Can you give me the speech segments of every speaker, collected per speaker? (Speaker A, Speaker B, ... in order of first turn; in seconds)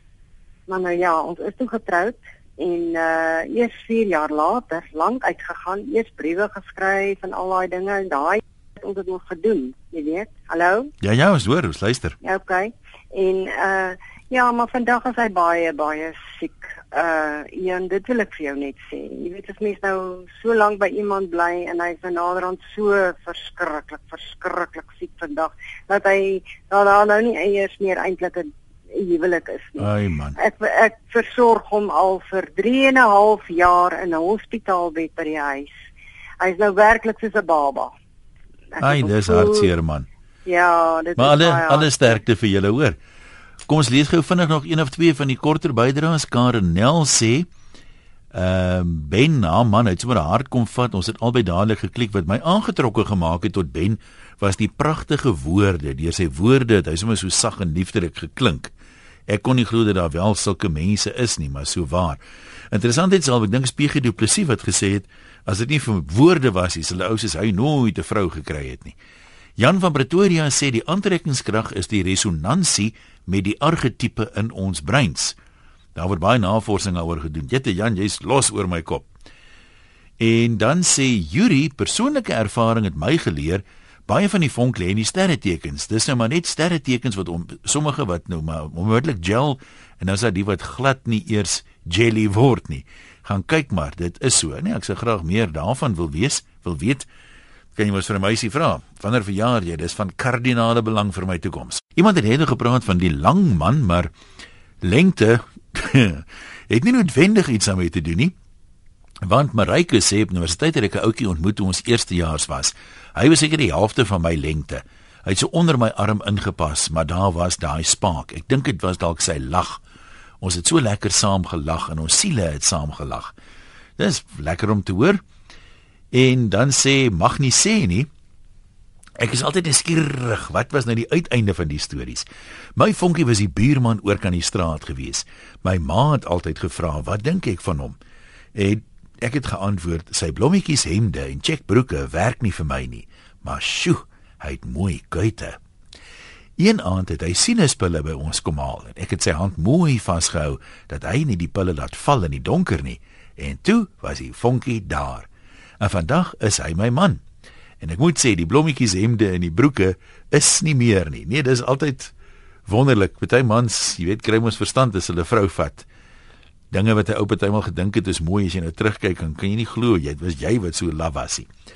Speaker A: 0.7-10.9, 12.2-35.8, 36.4-37.9, 38.7-39.7, 40.5-42.2
Speaker B: 11.0-12.2, 29.8-30.4, 38.8-40.1, 41.2-43.0, 43.7-47.5, 48.3-58.7, 59.3-62.2, 62.7-69.0, 69.6-75.4, 76.0-79.1, 80.2-97.1, 97.8-104.1, 104.8-108.3, 109.2-119.8, 120.4-123.3, 124.0-125.2, 126.1-128.1, 129.2-138.0, 138.6-145.6, 146.6-155.3, 155.8-157.2, 157.8-162.1, 162.7-165.9, 166.7-171.5